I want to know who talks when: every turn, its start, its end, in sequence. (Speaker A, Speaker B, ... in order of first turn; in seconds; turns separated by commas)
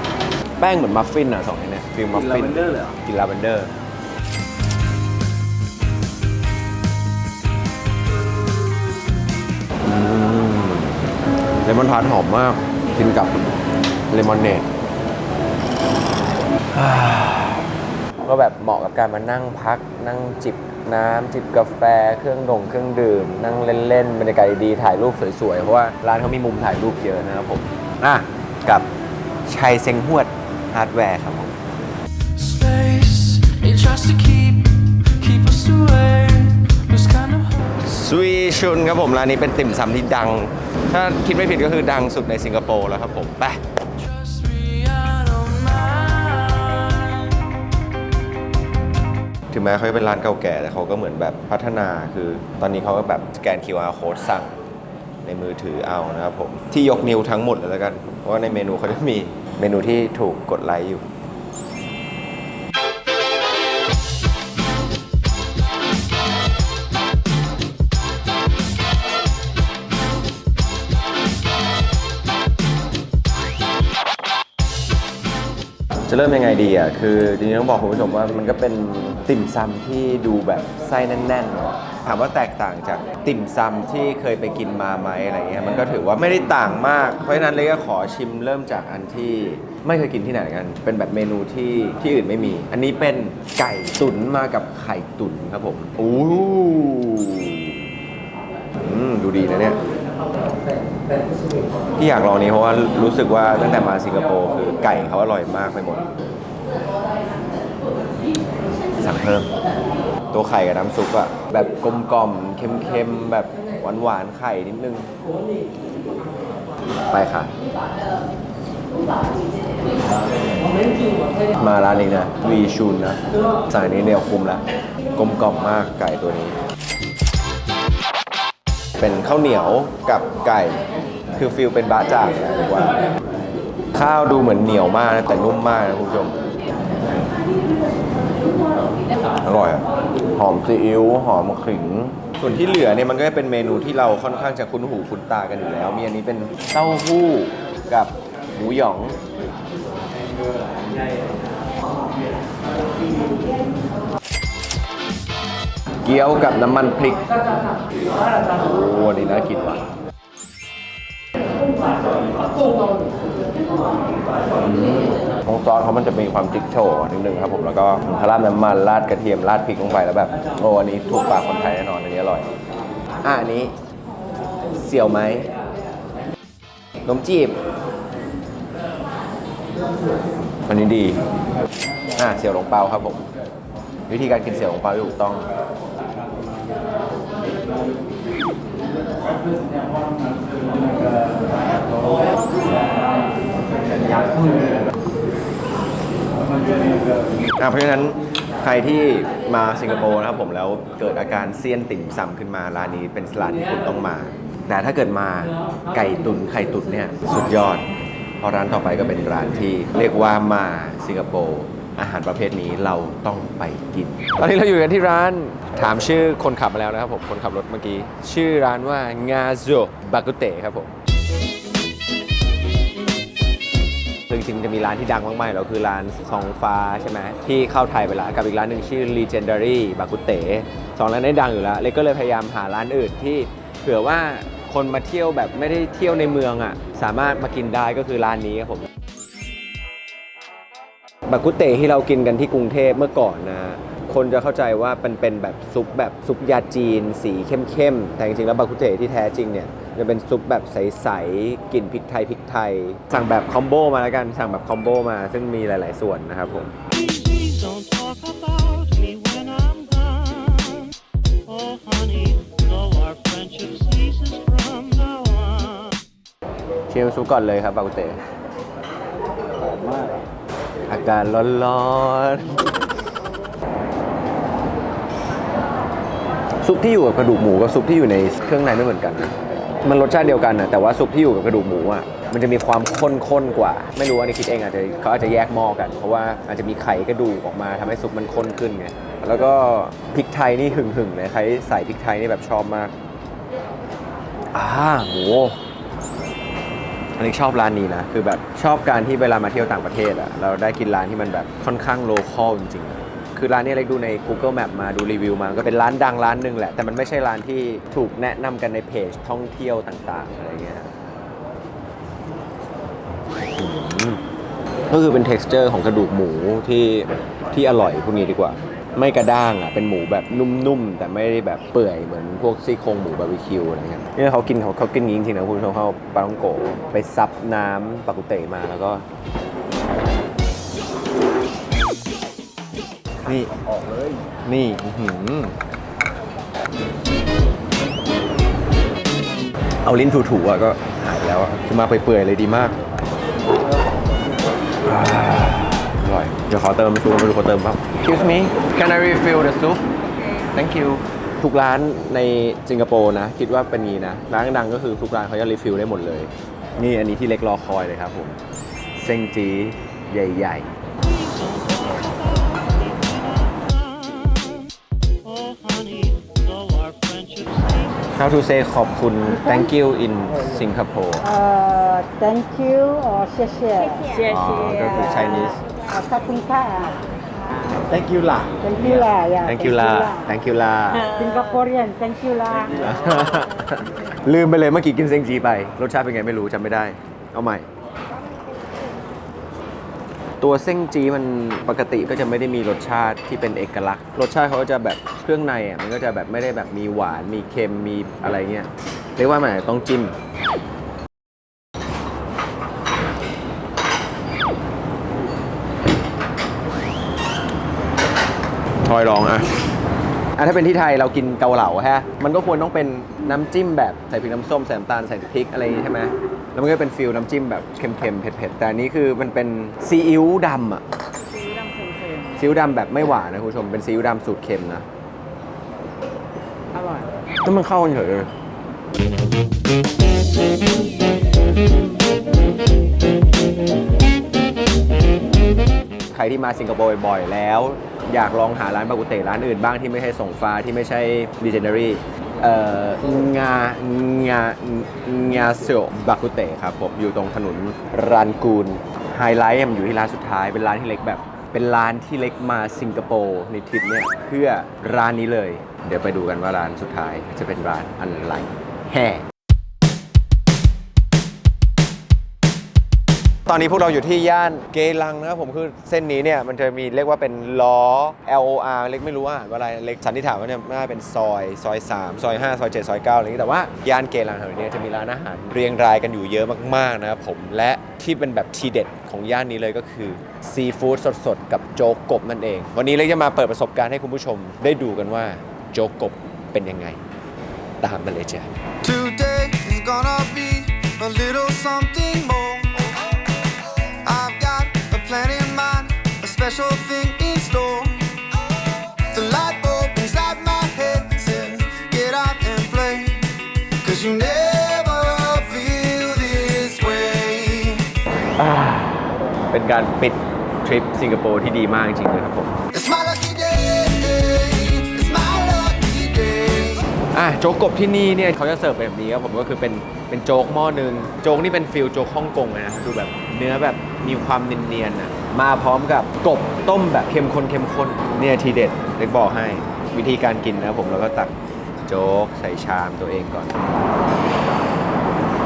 Speaker A: 0.6-3.7, Speaker A: 9.8-11.0, Speaker A: 11.6-13.4, Speaker A: 14.1-14.7, Speaker A: 16.7-17.7, Speaker A: 18.2-28.9, Speaker A: 29.5-31.6, Speaker B: 32.4-37.8, Speaker A: 37.9-43.6, Speaker B: 44.0-47.4, Speaker A: 49.5-54.6, Speaker A: 55.2-61.1, Speaker A: 76.1-97.8, Speaker A: 98.8-99.8, Speaker A: 102.0-106.1, Speaker A: 109.0-109.5, Speaker A: 110.3-115.1, Speaker A: 117.1-117.5, Speaker A: 121.6-124.6, Speaker A: 125.2-126.6, Speaker A: 129.0-130.8, Speaker A: 131.3-133.0, Speaker A: 133.9-136.4, Speaker A: 139.4-149.2, Speaker A: 156.1-157.2, Speaker A: 158.5-159.8, Speaker A: 164.6-172.5, Speaker A: 173.2-173.7, Speaker A: 174.8-175.5, Speaker A: 177.1-177.6, Speaker A: 180.7-181.2, Speaker A: 182.2-183.3, Speaker A: 184.1-185.5, Speaker A: 193.9-194.8, Speaker A: 197.6-220.9, Speaker A: 224.3-238.9, Speaker A: 241.3-256.7, Speaker C: 257.0-260.2, Speaker C: 261.6-265.4, Speaker A: 266.9-268.2, Speaker A: 270.9-272.6, Speaker A: 276.6-292.9, Speaker A: 294.5-295.6, Speaker A: 297.2-310.9, Speaker A: 313.5-314.2, Speaker A: 314.9-329.1, Speaker A: 333.2-333.5, Speaker A: 334.4-335.6, Speaker A: 339.8-342.8, Speaker A: 344.9-349.9, Speaker A: 350.5-358.4, Speaker A: 359.0-360.7, Speaker C: 361.1-364.3, Speaker C: 365.4-367.5, Speaker A: 368.1-371.3, Speaker D: 371.2-374.2, Speaker A: 374.2-375.6, Speaker D: 375.8-377.0, Speaker A: 377.9-381.1, Speaker D: 378.6-380.3, Speaker D: 381.1-382.8, Speaker A: 382.8-387.7, Speaker A: 390.4-400.1, Speaker A: 408.8-409.5, Speaker A: 410.4-420.8, Speaker D: 421.6-422.1, Speaker A: 422.3-424.9, Speaker A: 427.4-428.3, Speaker A: 436.1-459.2, Speaker A: 463.5-487.0, Speaker A: 487.8-488.5, Speaker E: 488.8-507.9, Speaker A: 508.4-512.6, Speaker E: 512.7-517.0, Speaker A: 517.1-533.6